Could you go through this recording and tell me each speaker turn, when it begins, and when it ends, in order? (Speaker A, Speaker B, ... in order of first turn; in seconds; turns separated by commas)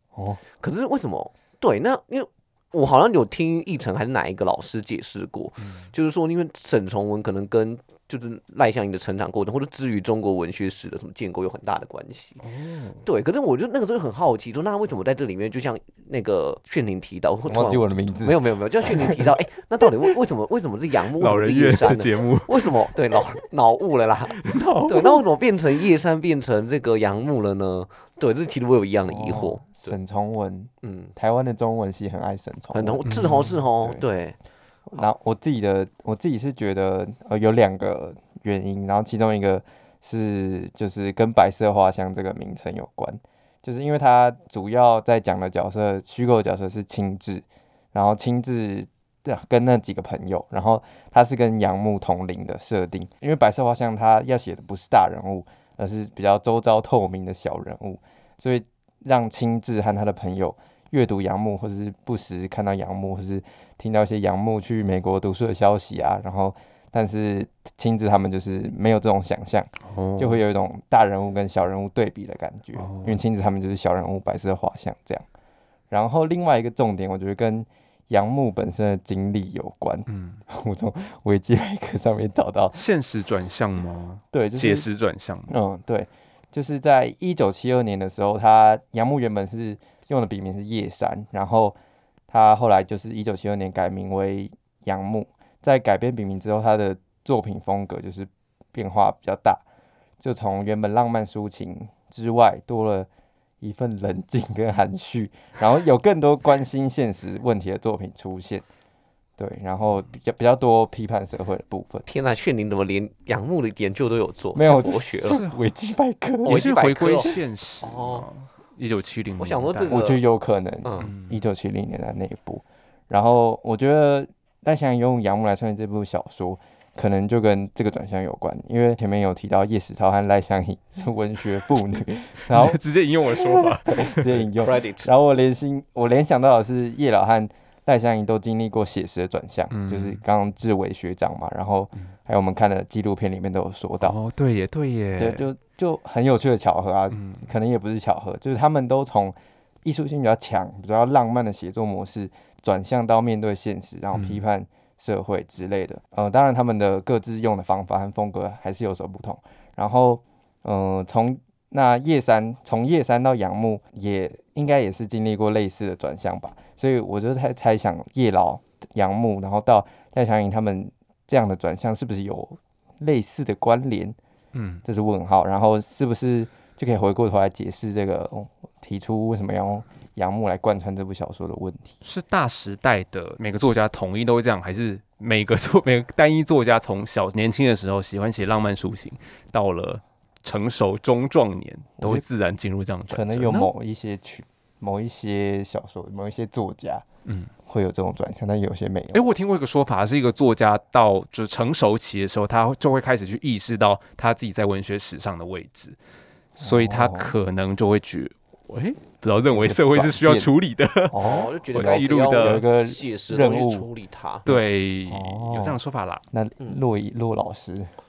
Speaker A: 0.1-0.4, Speaker B: 0.6-12.4, Speaker C: 5.6-5.9, Speaker C: 12.4-13.0, Speaker B: 13.0-29.9, Speaker A: 17.5-19.3, Speaker C: 21.2-22.6, Speaker C: 24.4-25.2, Speaker A: 29.0-33.0, Speaker B: 30.8-31.1, Speaker B: 32.7-34.4, Speaker C: 33.0-33.6, Speaker A: 34.9-75.2, Speaker C: 69.8-70.4, Speaker C: 72.8-73.2, Speaker A: 75.9-82.8, Speaker C: 80.1-80.4, Speaker C: 82.7-85.5, Speaker A: 84.3-84.8, Speaker A: 85.5-91.8, Speaker A: 92.3-99.6, Speaker A: 100.2-103.1, Speaker A: 103.6-108.6, Speaker A: 109.4-112.0, Speaker B: 112.0-115.4, Speaker A: 114.5-116.7, Speaker C: 115.3-115.6, Speaker B: 116.4-118.3, Speaker C: 116.4-120.0, Speaker B: 119.4-120.2, Speaker A: 119.9-132.8, Speaker B: 120.8-121.1, Speaker C: 121.0-121.4, Speaker C: 132.4-134.5, Speaker A: 133.3-144.2, Speaker B: 134.6-135.1, Speaker C: 139.7-140.2, Speaker C: 144.0-145.5, Speaker A: 145.2-174.2, Speaker C: 147.1-147.5, Speaker C: 154.1-154.4, Speaker C: 174.5-174.8, Speaker A: 174.8-181.9, Speaker C: 182.0-193.7, Speaker A: 192.0-192.2, Speaker A: 193.1-197.0, Speaker A: 197.7-199.2, Speaker C: 199.1-205.9, Speaker C: 206.6-212.6, Speaker A: 206.6-207.3, Speaker A: 209.5-210.5, Speaker A: 211.1-213.9, Speaker B: 211.2-214.4, Speaker C: 214.4-216.2, Speaker A: 214.5-215.8, Speaker A: 216.3-217.9